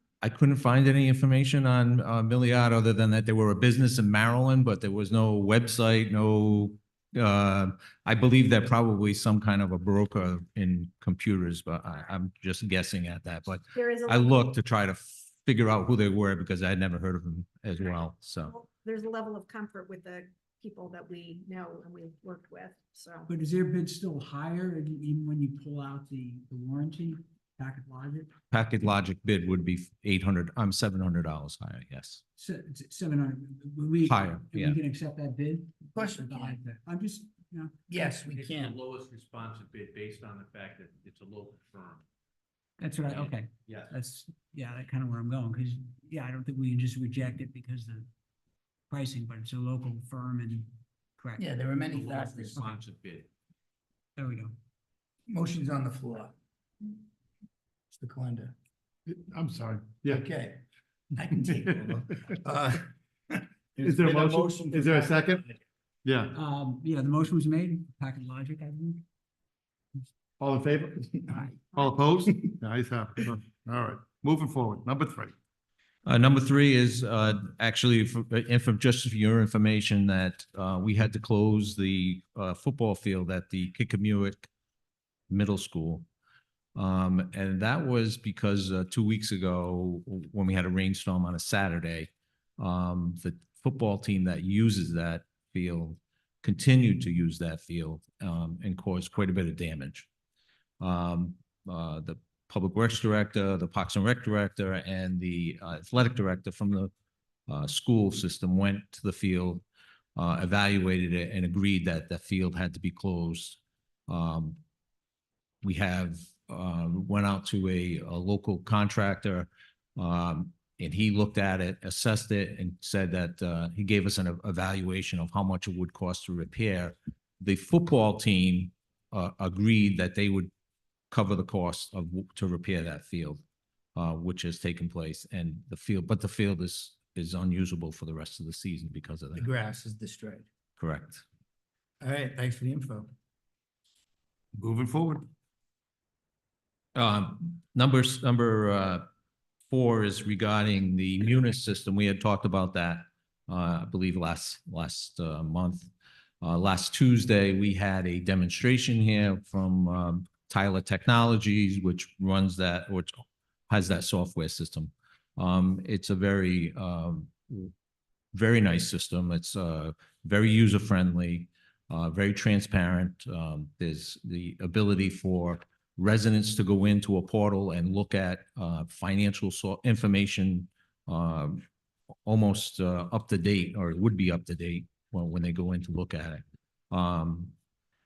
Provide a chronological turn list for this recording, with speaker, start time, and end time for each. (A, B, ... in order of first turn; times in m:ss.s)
0:00.2-0:18.5 A
0:13.7-0:14.4 B
0:18.4-0:23.3 B
0:23.3-0:28.3 C
0:28.5-0:32.2 A
0:32.4-0:37.8 C
0:34.0-0:34.8 A
0:36.0-0:36.6 D
0:37.9-0:38.8 D
0:38.6-0:42.0 E
0:42.8-0:48.1 C
0:43.2-0:43.8 E
0:48.9-0:51.4 C
0:51.4-0:52.6 D
0:52.0-0:53.2 E
0:54.2-0:54.5 C
0:55.3-0:56.3 D
0:57.9-0:58.5 D
0:59.1-1:00.2 F
1:00.1-1:00.6 D
1:01.2-1:05.6 D
1:03.8-1:05.4 F
1:06.0-1:06.4 F
1:06.3-1:09.0 C
1:10.4-1:15.3 F
1:16.0-1:24.5 A
1:25.3-1:26.0 A
1:26.7-1:40.1 A
1:40.8-1:46.9 A
1:47.5-1:49.6 A
1:50.2-1:54.6 A
1:55.6-2:10.5 A
2:11.1-2:13.4 A
2:14.0-2:19.5 A
2:19.4-2:20.4 D
2:20.8-2:21.2 A
2:22.0-2:23.1 D
2:24.5-2:25.2 D
2:26.9-2:29.0 A
2:29.7-2:35.9 A
2:36.4-2:47.7 A
2:48.3-3:01.6 A
3:02.2-3:07.5 A